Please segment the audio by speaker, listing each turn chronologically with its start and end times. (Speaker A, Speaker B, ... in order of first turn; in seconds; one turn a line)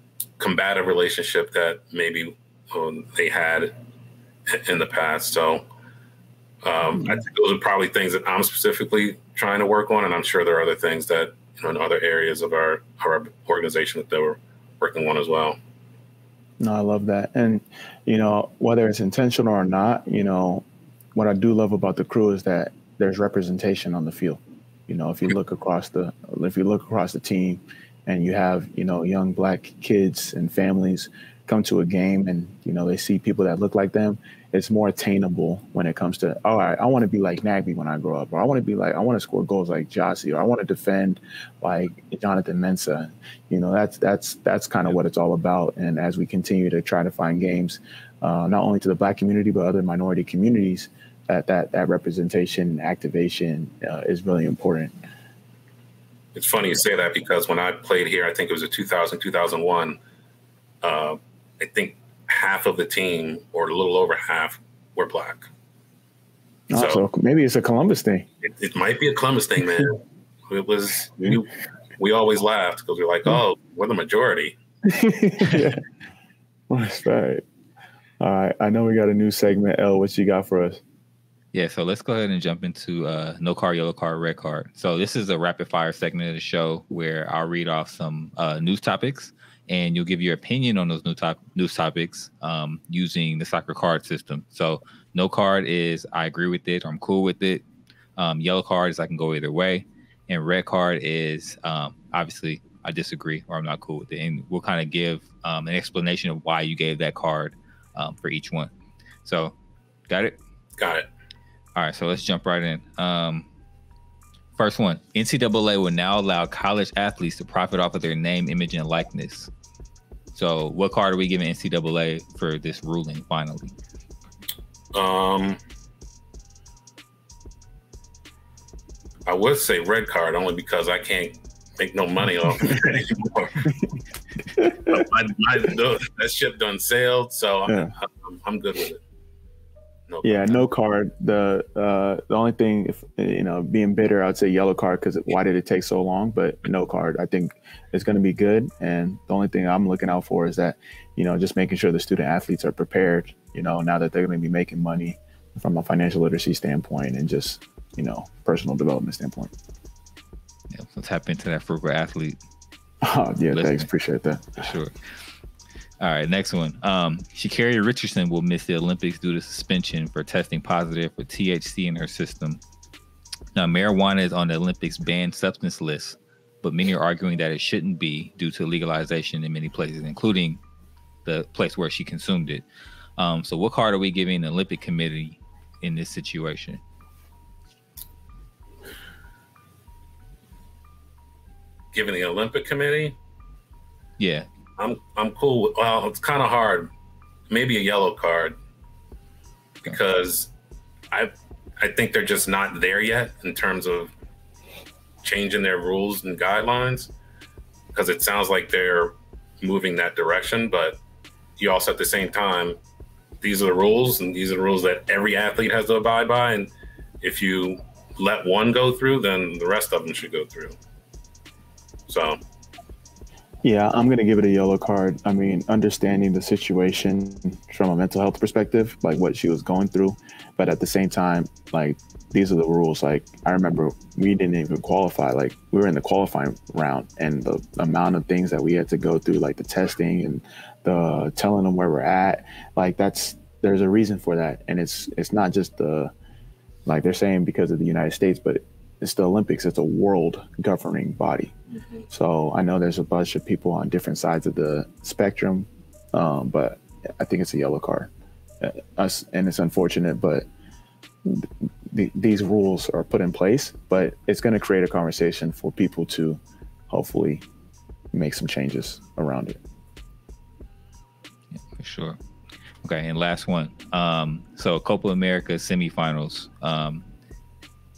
Speaker A: 0.4-3.7
Speaker A: 4.5-5.6
Speaker A: 6.6-15.6
Speaker B: 16.6-54.9
Speaker A: 56.4-60.0
Speaker A: 60.8-65.5
Speaker B: 66.7-68.3
Speaker A: 66.8-67.1
Speaker A: 68.4-74.6
Speaker B: 74.8-75.8
Speaker B: 76.7-77.5
Speaker B: 78.2-80.8
Speaker C: 81.5-97.6
Speaker C: 98.2-108.7
Speaker C: 109.2-109.5
Speaker C: 110.1-110.4
Speaker A: 110.8-111.1
Speaker C: 111.8-113.5
Speaker C: 114.6-119.5
Speaker C: 120.3-123.7
Speaker A: 124.9-125.6
Speaker A: 129.3-133.7
Speaker B: 134.4-135.1
Speaker A: 134.9-139.0
Speaker B: 137.7-137.9
Speaker A: 140.1-140.6
Speaker B: 140.2-159.5
Speaker C: 160.7-162.4
Speaker B: 163.0-164.7
Speaker C: 163.5-163.9
Speaker C: 164.6-164.9
Speaker C: 166.0-172.6
Speaker C: 173.6-180.6
Speaker C: 181.2-182.7
Speaker C: 183.2-186.8
Speaker A: 191.9-193.2
Speaker C: 194.2-194.5
Speaker A: 194.8-196.9
Speaker A: 197.5-198.6
Speaker A: 199.8-200.5
Speaker A: 201.1-204.1
Speaker A: 205.2-207.1
Speaker A: 207.9-211.0
Speaker A: 211.6-212.8
Speaker A: 213.4-220.8
Speaker A: 222.1-222.4
Speaker B: 223.6-246.1
Speaker B: 246.9-251.5
Speaker B: 252.1-260.4
Speaker B: 261.2-267.4
Speaker B: 268.1-269.6
Speaker C: 271.7-272.2
Speaker C: 272.8-277.1